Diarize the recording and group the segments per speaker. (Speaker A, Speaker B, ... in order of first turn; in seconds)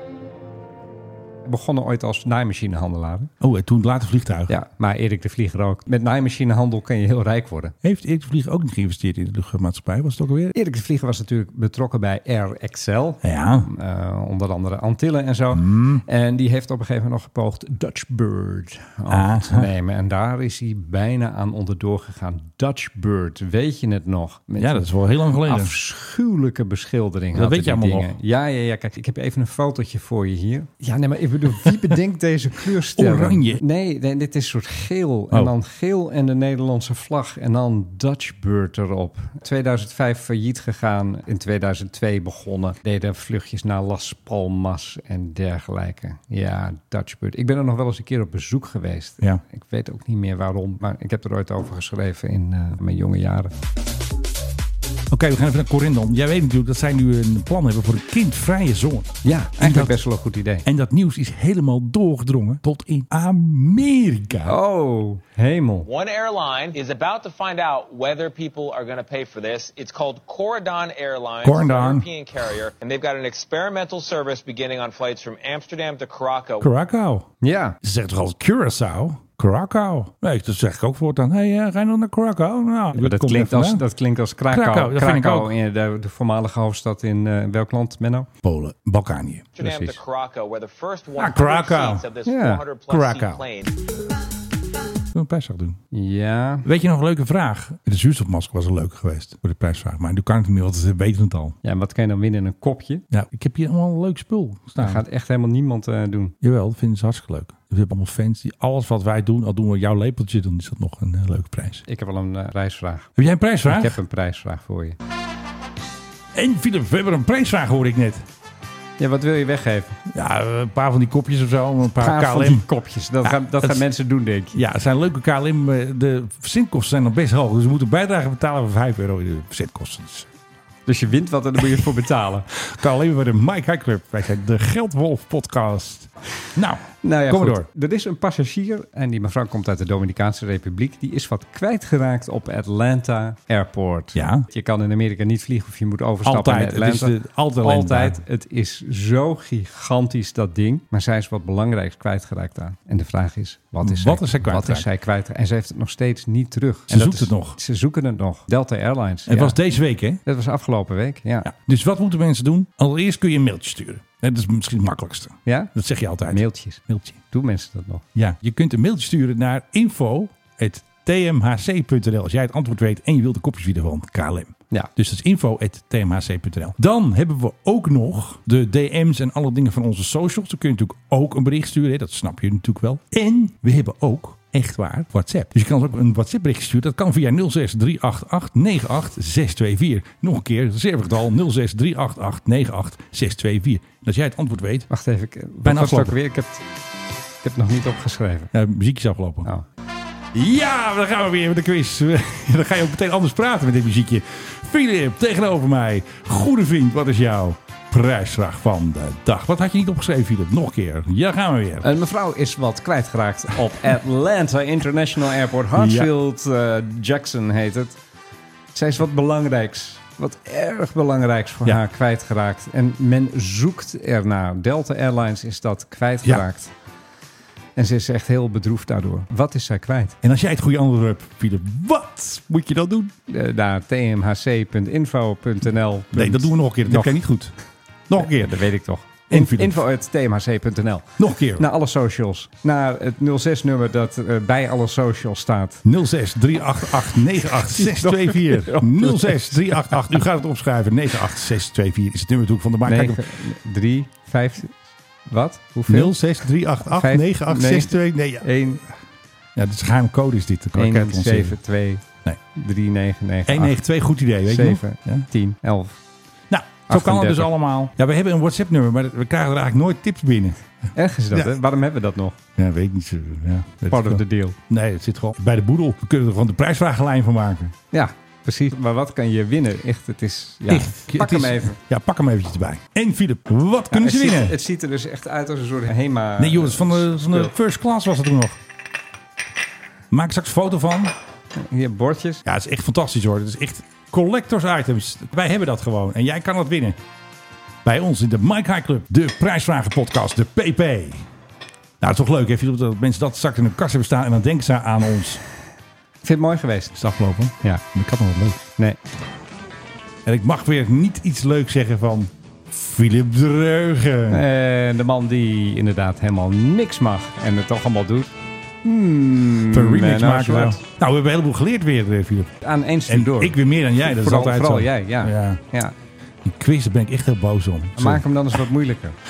Speaker A: 1.4-3.3, 4.5-7.7, 10.5-53.5, 59.2-60.6, 64.4-65.9, 77.4-77.8, 83.0-88.3, 89.6-90.0, 92.2-92.6, 95.9-96.7, 101.6-103.0, 104.8-106.3, 111.9-113.1, 113.7-115.0, 119.0-120.0, 122.0-124.6, 130.9-132.5, 137.0-159.6, 160.2-161.5, 165.4-165.7, 166.3-168.1, 194.9-196.6, 197.4-198.5, 211.8-217.9, 218.7-226.7, 227.8-230.2, 233.3-237.2, 238.2-245.8, 247.7-250.0, 252.9-254.8, 255.3-256.1, 256.8-258.8, 260.7-263.8, 264.4-266.0, 266.9-267.5, 270.9-272.4, 273.9-274.6, 277.9-281.8, 283.9-287.5, 291.6-292.4, 306.2-306.9, 314.3-318.3, 318.8-320.8, 322.6-325.9, 328.0-329.1
Speaker B: 3.4-4.5, 7.8-10.5, 13.2-13.7, 15.5-16.0, 19.1-19.7, 24.6-25.7, 27.3-28.1, 32.9-33.6, 55.1-60.0, 60.6-64.6, 71.4-72.1, 76.6-77.3, 77.8-83.8, 84.5-85.5, 88.4-89.5, 91.2-92.1, 92.9-93.5, 95.1-95.8, 96.6-101.5, 103.1-105.0, 106.4-111.8, 113.2-114.0, 116.3-118.3, 120.1-122.7, 123.2-123.8, 124.5-130.3, 132.6-137.7, 144.1-144.5, 146.2-148.2, 153.8-154.9, 156.9-157.6, 159.3-160.2, 161.4-167.2, 168.1-194.9, 195.6-196.2, 198.5-199.5, 200.3-211.9, 215.7-216.1, 230.2-233.1, 236.1-237.6, 238.1-238.7, 239.3-239.8, 241.2-241.7, 245.8-253.2, 255.9-258.6, 259.6-261.6, 263.5-265.3, 266.5-270.6, 272.6-277.7, 280.7-284.6, 286.4-288.6, 290.1-291.1, 292.4-297.0, 297.8-301.3, 302.0-305.4, 306.9-308.6, 310.2-314.4, 319.7-322.5, 323.1-325.6, 326.4-328.6
Speaker C: 65.9-76.7, 89.5-93.7